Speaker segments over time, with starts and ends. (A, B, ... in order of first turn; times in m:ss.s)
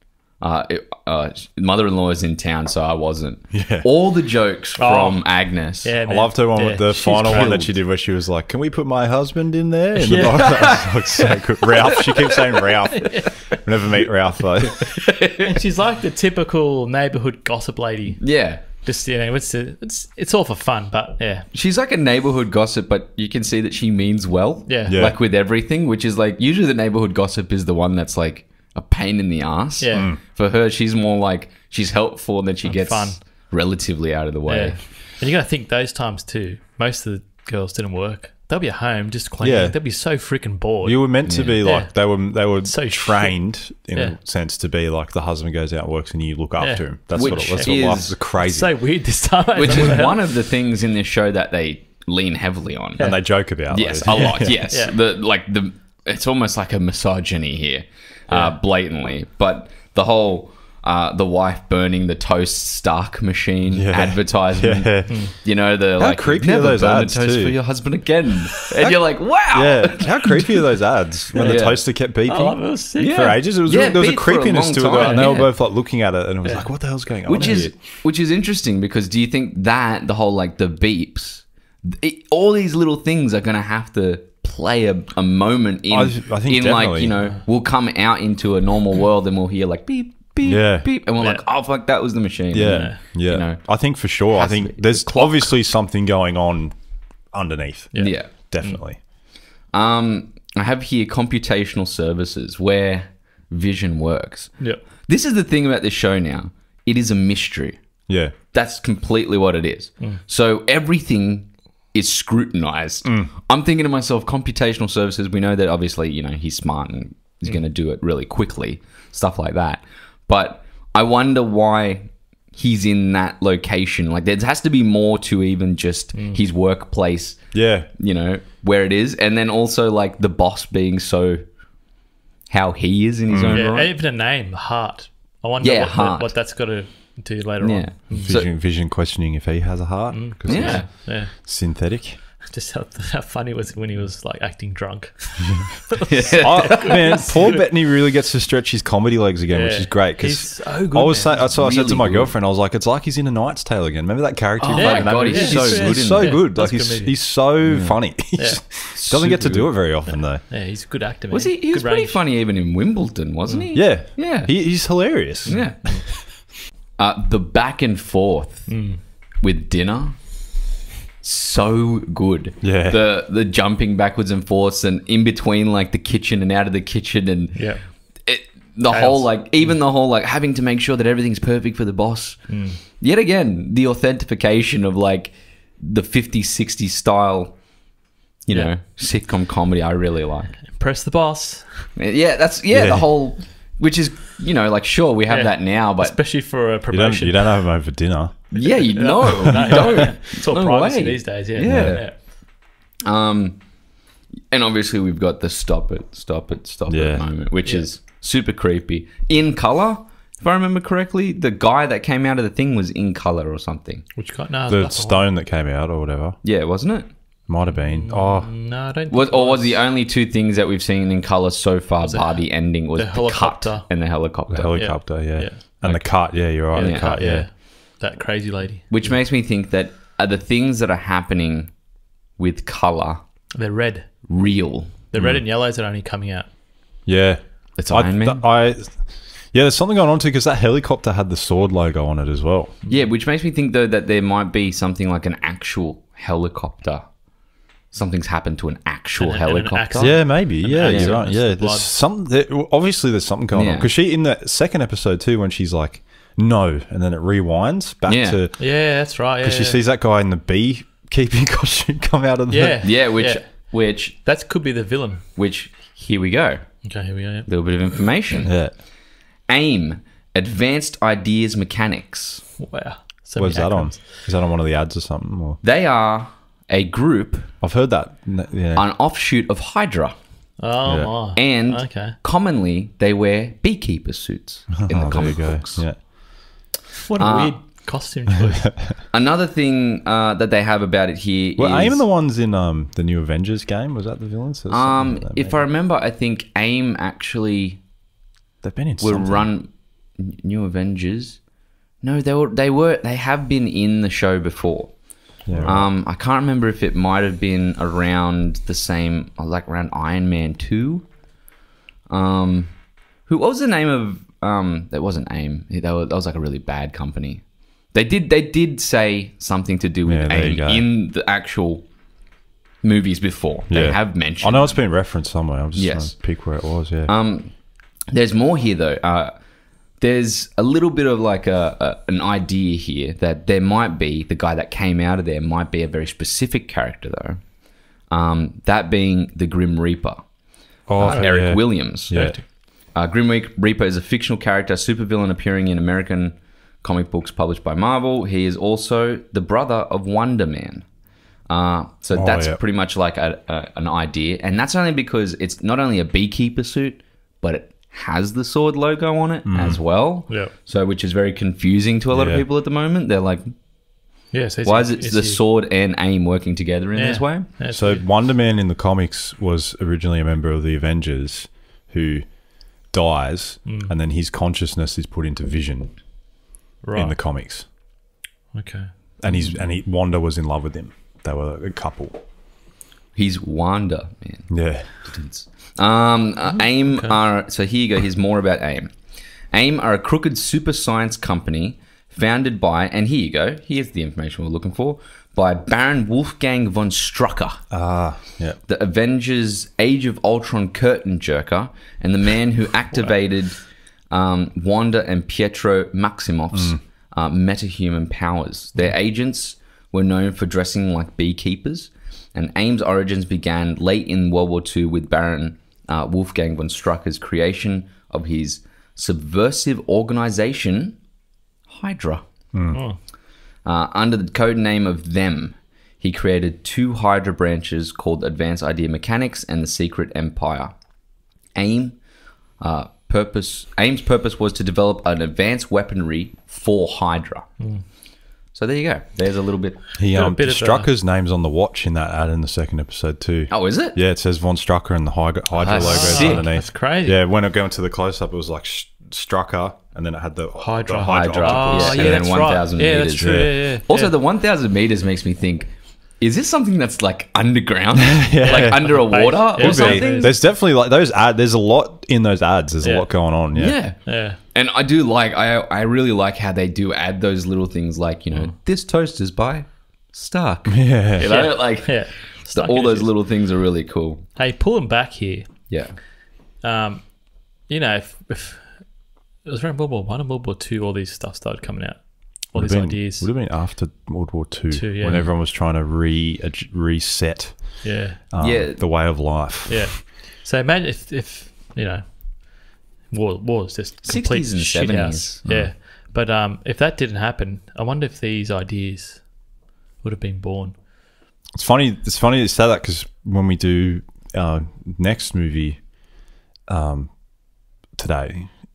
0:00.4-0:05.9 A
0:03.5-0:03.9 B
0:04.8-0:07.6 C
0:06.0-0:15.0 B
0:06.9-0:07.8 A
0:10.0-0:11.3 C
0:10.4-0:11.3 A
0:11.9-0:13.6 C
0:11.9-0:12.3 A
0:14.8-0:15.6 A
0:15.4-0:21.5 C
0:18.2-0:18.6 A
0:21.5-0:34.8 A
0:24.7-0:25.0 C
0:24.9-0:25.2 B
0:29.8-0:30.1 C
0:29.9-0:30.2 B
0:32.6-0:33.2 C
0:34.5-0:44.2 C
0:39.4-0:39.8 B
0:40.8-0:48.7 B
0:41.3-0:41.6 A
0:46.6-0:50.2 C
0:47.1-0:48.2 A
0:49.6-1:10.5 A
0:53.0-0:54.6 B
0:54.1-0:54.9 C
0:58.3-0:58.6 C
1:03.7-1:05.3 B
1:05.1-1:05.3 C
1:06.0-1:07.6 B
1:08.8-1:17.8 B
1:11.4-1:11.6 C
1:11.4-1:11.8 A
1:12.3-1:13.4 C
1:13.0-1:15.5 A
1:14.9-1:15.5 C
1:17.3-1:35.6 A
1:25.9-1:27.1 B
1:30.4-1:30.9 B
1:32.5-1:36.8 B
1:32.6-1:33.0 C
1:37.3-1:39.0 B
1:37.9-1:38.8 C
1:38.0-1:38.3 A
1:39.7-1:47.8 A
1:48.1-1:48.3 B
1:48.5-2:11.4 A
1:53.0-1:53.3 B
2:06.1-2:06.4 C
2:07.5-2:07.9 B
2:12.5-2:13.9 A
2:13.3-2:13.6 B
2:13.5-2:18.4 C
2:15.6-2:16.3 A
2:17.6-2:18.5 A
2:18.1-2:22.2 B
2:20.1-2:21.5 C
2:20.5-2:20.9 A
2:22.5-2:27.7 C
2:26.0-2:27.3 A
2:26.4-2:40.4 B
2:29.5-2:31.5 C
2:31.5-2:32.3 A
2:34.6-2:37.4 C
2:34.7-2:36.4 A
2:37.6-2:38.0 A
2:38.4-2:38.6 C
2:38.9-2:39.7 A
2:40.1-2:42.2 C
2:41.3-2:44.5 A
2:43.7-2:46.2 B
2:45.5-2:46.1 A
2:45.5-2:46.0 C
2:47.0-2:48.7 A
2:48.7-2:49.0 C
2:49.4-2:50.2 A
2:51.2-3:07.6 A
2:52.6-2:53.0 B
2:57.6-2:57.8 C
2:58.9-2:59.8 C
3:02.5-3:02.8 C
3:08.4-3:10.6 A
3:10.7-3:11.9 C
3:12.0-3:16.2 A
3:12.7-3:13.1 B
3:15.3-3:17.6 C
3:16.9-3:18.5 B
3:18.5-3:22.3 A
3:18.6-3:22.2 C
3:19.3-3:19.8 B
3:21.6-3:22.0 B
3:23.0-3:23.6 A
3:24.5-3:34.0 A
3:26.9-3:27.3 B
3:34.2-3:35.3 C
3:34.7-3:36.4 B
3:36.4-3:37.1 A
3:37.5-3:38.5 B
3:37.7-3:39.8 C
3:39.1-3:44.8 A
3:42.0-3:43.9 C
3:44.5-3:47.5 B
3:44.7-3:49.1 C
3:46.7-3:47.2 A
3:48.9-3:51.7 A
3:52.4-3:53.2 A
3:53.6-3:54.3 C
3:54.3-3:54.9 A
3:55.1-3:56.5 C
3:55.2-3:55.4 B
3:57.1-4:02.7 B
3:57.8-3:58.4 A
4:02.8-4:03.1 C
4:02.9-4:07.1 A
4:07.9-4:10.3 A
4:09.2-4:11.9 C
4:10.0-4:18.8 B
4:10.8-4:11.2 A
4:13.5-4:13.9 A
4:18.1-4:18.4 A
4:18.6-4:19.8 C
4:19.4-4:22.8 B
4:22.5-4:25.2 C
4:22.8-4:24.2 A
4:25.4-4:26.7 A
4:26.8-4:27.5 C
4:27.5-4:28.6 A
4:28.4-4:28.7 B
4:29.5-4:32.4 A
4:32.6-4:34.1 C
4:33.4-4:35.6 B
4:35.6-4:37.5 A
4:37.6-4:38.9 B
4:38.8-4:40.2 A
4:40.6-4:42.2 C
4:40.9-4:41.2 B
4:41.4-4:45.9 A
4:44.8-4:46.0 B
4:47.0-4:48.9 C
4:47.2-4:47.6 A
4:49.1-4:52.0 A
4:51.6-4:55.6 B
4:54.7-4:57.8 A
4:58.6-4:59.5 B
4:59.0-5:01.4 A
5:02.0-5:05.0 A
5:05.5-5:05.9 B
5:05.5-5:11.1 A
5:12.1-5:12.7 A
5:13.3-5:21.9 A
5:20.1-5:20.9 B
5:22.8-5:24.8 A
5:23.7-5:27.1 B
5:25.8-5:26.2 A
5:27.1-5:27.5 A
5:28.1-5:29.4 A
5:30.0-5:37.4 A
5:38.1-5:40.2 A
5:40.9-5:42.4 B
5:41.0-5:50.9 A
5:41.0-5:41.5 C
5:51.5-6:03.5 A
5:52.1-5:52.6 B
5:59.4-5:59.8 B
6:00.3-6:00.5 C
6:02.1-6:02.4 B
6:04.3-6:05.4 C
6:04.6-6:07.5 A
6:07.0-6:08.0 C
6:07.7-6:12.3 B
6:12.9-6:15.9 B
6:13.7-6:13.9 C
6:16.8-6:17.2 C
6:16.9-6:17.6 B
6:18.5-6:18.9 C
6:19.2-6:22.2 B
6:23.1-6:24.5 A
6:24.5-6:24.9 B
6:25.0-6:28.9 A
6:26.9-6:27.2 C
6:29.5-6:37.6 A
6:37.7-6:38.6 B
6:38.7-6:43.6 A
6:44.1-7:01.0 A
7:01.7-7:02.2 A
7:02.5-7:02.8 B
7:02.7-7:03.0 C
7:03.6-7:10.7 A
7:11.5-7:12.0 A
7:12.6-7:17.5 A
7:18.5-7:19.8 A
7:20.0-7:32.3 B
7:20.1-7:20.9 C
7:23.5-7:24.0 A
7:25.6-7:26.5 A
7:25.8-7:27.2 C
7:30.6-7:34.1 C
7:31.1-7:40.3 A
7:33.2-7:33.5 B
7:38.0-7:43.8 B
7:38.4-7:40.3 C
7:42.8-7:43.3 C
7:43.6-7:54.2 A
7:44.0-7:44.4 C
7:50.7-7:51.3 B
7:51.2-7:53.1 C
7:54.4-7:55.7 C
7:55.7-7:56.0 A
7:56.6-7:58.9 C
7:59.4-8:03.3 C
8:02.5-8:09.9 B
8:04.7-8:05.3 C
8:07.8-8:08.2 C
8:08.4-8:08.8 A
8:09.7-8:19.4 C
8:14.0-8:15.4 A
8:15.5-8:15.7 B
8:20.0-8:20.7 C
8:21.6-8:25.9 B
8:26.7-8:27.2 B
8:28.0-8:28.5 B